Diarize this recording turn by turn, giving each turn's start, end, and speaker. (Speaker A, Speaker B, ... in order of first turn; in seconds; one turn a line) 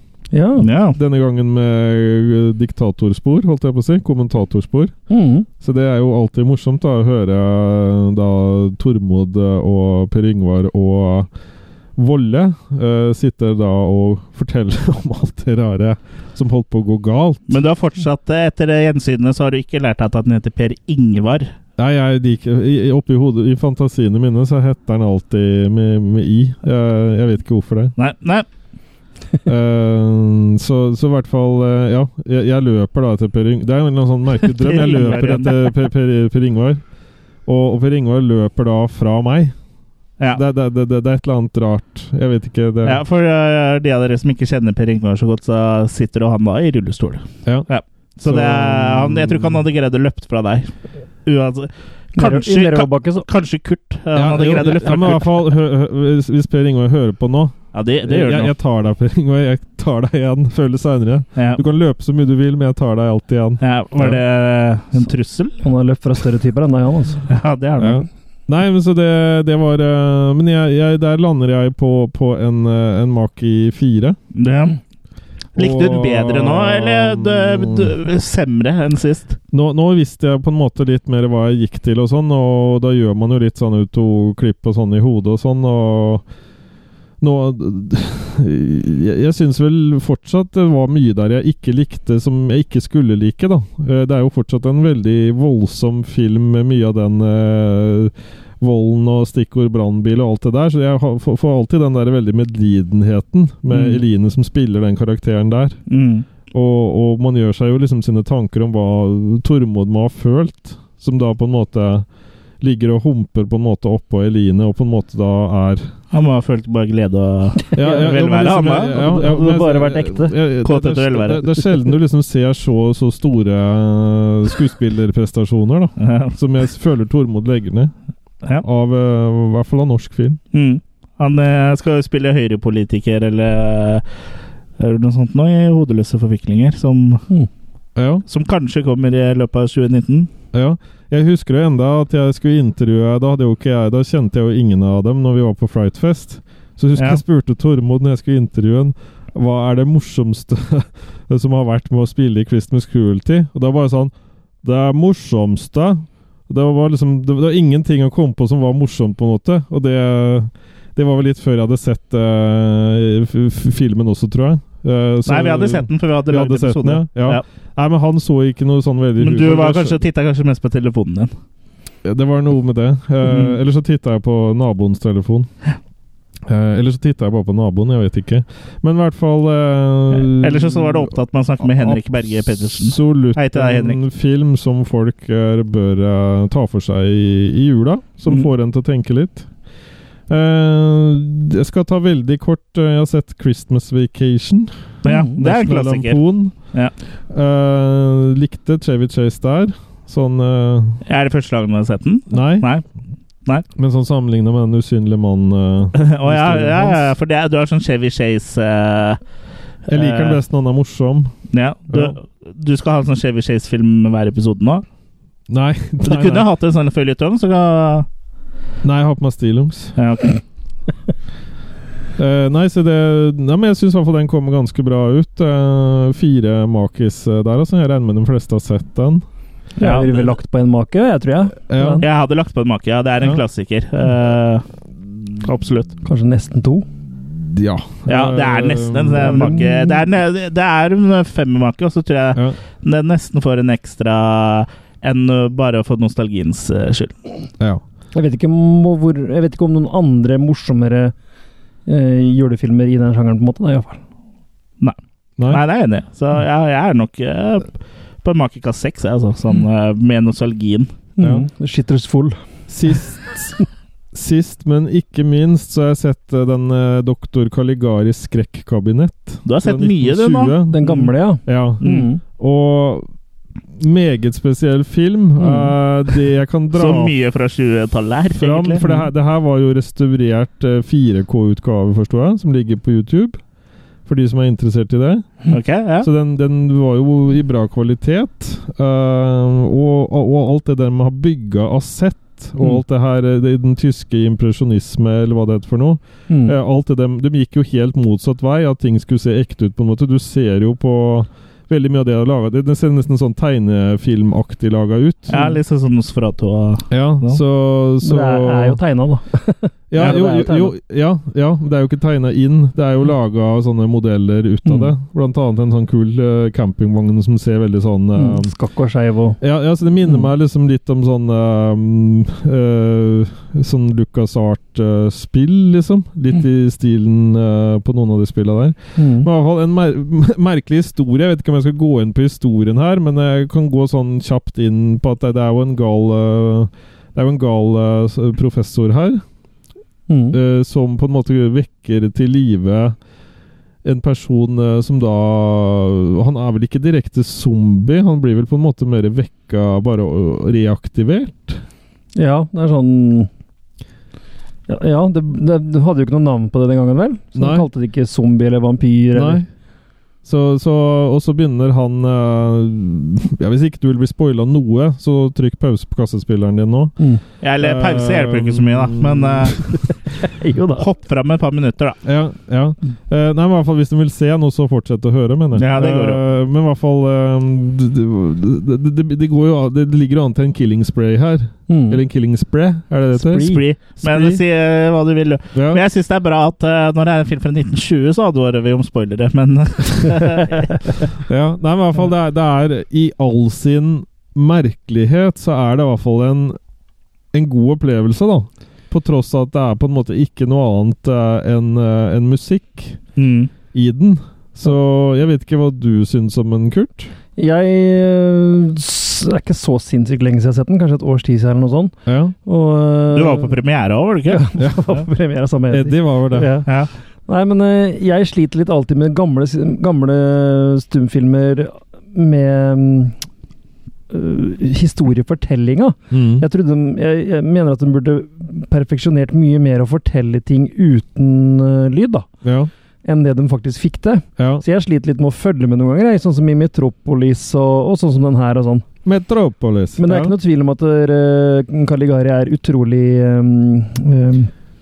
Speaker A: 0.3-0.7
Speaker B: 0.6-1.0
Speaker C: 0.9-5.0
Speaker A: 5.1-5.5
Speaker C: 5.6-11.3
Speaker C: 11.9-17.4
Speaker B: 17.5-21.5
Speaker C: 21.8-27.9
Speaker B: 28.0-28.4
Speaker C: 29.4-36.8
Speaker B: 34.5-35.7
Speaker C: 37.5-39.5
Speaker C: 40.3-43.0
Speaker B: 42.8-50.7
Speaker C: 48.2-49.6
Speaker B: 51.2-55.4
Speaker A: 52.1-53.2
Speaker C: 54.1-64.2
Speaker B: 57.7-58.5
Speaker B: 61.4-61.6
Speaker B: 63.6-65.6
Speaker A: 65.6-67.2
Speaker B: 67.3-68.0
Speaker C: 67.8-74.2
Speaker B: 74.3-74.8
Speaker B: 75.5-79.4
Speaker C: 75.5-77.9
Speaker C: 79.5-86.2
Speaker C: 87.2-105.8
Speaker B: 103.7-104.0
Speaker B: 105.9-106.2
Speaker C: 106.5-112.1
Speaker C: 112.6-115.9
Speaker B: 116.1-119.0
Speaker C: 117.7-127.9
Speaker A: 117.8-118.1
Speaker A: 118.9-120.3
Speaker B: 120.6-121.5
Speaker B: 126.0-126.3
Speaker C: 128.6-130.4
Speaker B: 130.5-134.0
Speaker B: 134.8-137.2
Speaker C: 137.9-138.2
Speaker B: 138.3-140.3
Speaker C: 140.5-170.0
Speaker B: 165.2-167.4
Speaker B: 169.2-171.3
Speaker C: 172.0-175.5
Speaker B: 173.2-173.6
Speaker C: 176.5-189.5
Speaker B: 180.1-184.0
Speaker C: 190.3-196.6
Speaker B: 195.0-196.2
Speaker A: 195.0-195.4
Speaker C: 197.3-201.0
Speaker B: 201.1-202.8
Speaker C: 202.3-202.7
Speaker C: 203.8-207.1
Speaker B: 205.9-209.2
Speaker B: 209.9-210.4
Speaker C: 209.9-211.3
Speaker B: 211.5-214.8
Speaker C: 211.9-212.2
Speaker C: 215.5-216.5
Speaker B: 216.0-218.1
Speaker C: 218.8-219.9
Speaker B: 220.0-220.4
Speaker C: 222.2-229.2
Speaker A: 229.8-232.1
Speaker B: 229.8-230.3
Speaker C: 231.7-232.0
Speaker B: 232.0-234.7
Speaker B: 235.3-235.9
Speaker A: 236.0-236.9
Speaker C: 237.3-239.6
Speaker B: 238.1-247.2
Speaker A: 239.2-240.0
Speaker A: 248.1-251.1
Speaker A: 251.9-254.0
Speaker B: 254.8-257.7
Speaker B: 258.2-260.9
Speaker A: 261.2-262.4
Speaker C: 261.2-261.5
Speaker C: 262.7-263.6
Speaker C: 264.1-273.1
Speaker B: 269.4-271.1
Speaker A: 270.7-272.2
Speaker B: 271.8-272.1
Speaker C: 273.8-277.1
Speaker A: 275.4-275.7
Speaker B: 276.7-278.8
Speaker C: 278.3-283.4
Speaker C: 284.1-285.5
Speaker B: 285.5-286.1
Speaker C: 286.0-305.5
Speaker A: 296.3-296.6
Speaker B: 305.3-307.4
Speaker C: 306.9-308.8
Speaker A: 308.0-310.7
Speaker C: 309.9-318.5
Speaker A: 314.6-314.9
Speaker A: 318.1-319.4
Speaker C: 319.4-339.2
Speaker A: 328.9-329.3
Speaker A: 340.1-340.4
Speaker C: 340.3-343.0
Speaker C: 343.8-351.6
Speaker A: 352.1-353.3
Speaker A: 354.7-359.4
Speaker C: 357.4-357.7
Speaker C: 359.1-359.5
Speaker C: 360.2-367.0
Speaker B: 367.4-369.7
Speaker C: 367.6-369.8
Speaker A: 370.2-370.8
Speaker B: 370.8-372.0
Speaker C: 372.0-384.4
Speaker B: 375.6-376.2
Speaker A: 381.7-382.0
Speaker A: 383.2-383.6
Speaker B: 383.2-390.8
Speaker C: 385.5-385.8
Speaker C: 391.2-396.6
Speaker C: 397.3-403.0
Speaker B: 403.2-403.5
Speaker C: 403.7-407.1
Speaker A: 407.4-413.5
Speaker C: 412.1-412.3
Speaker B: 413.1-414.5
Speaker A: 414.3-416.7
Speaker C: 414.6-414.9
Speaker C: 415.7-416.6
Speaker B: 416.6-416.9
Speaker A: 417.3-423.1
Speaker A: 424.1-432.3
Speaker C: 426.1-426.4
Speaker C: 432.4-432.7
Speaker A: 433.0-438.8
Speaker C: 434.4-434.6
Speaker C: 439.0-440.3
Speaker A: 440.0-444.5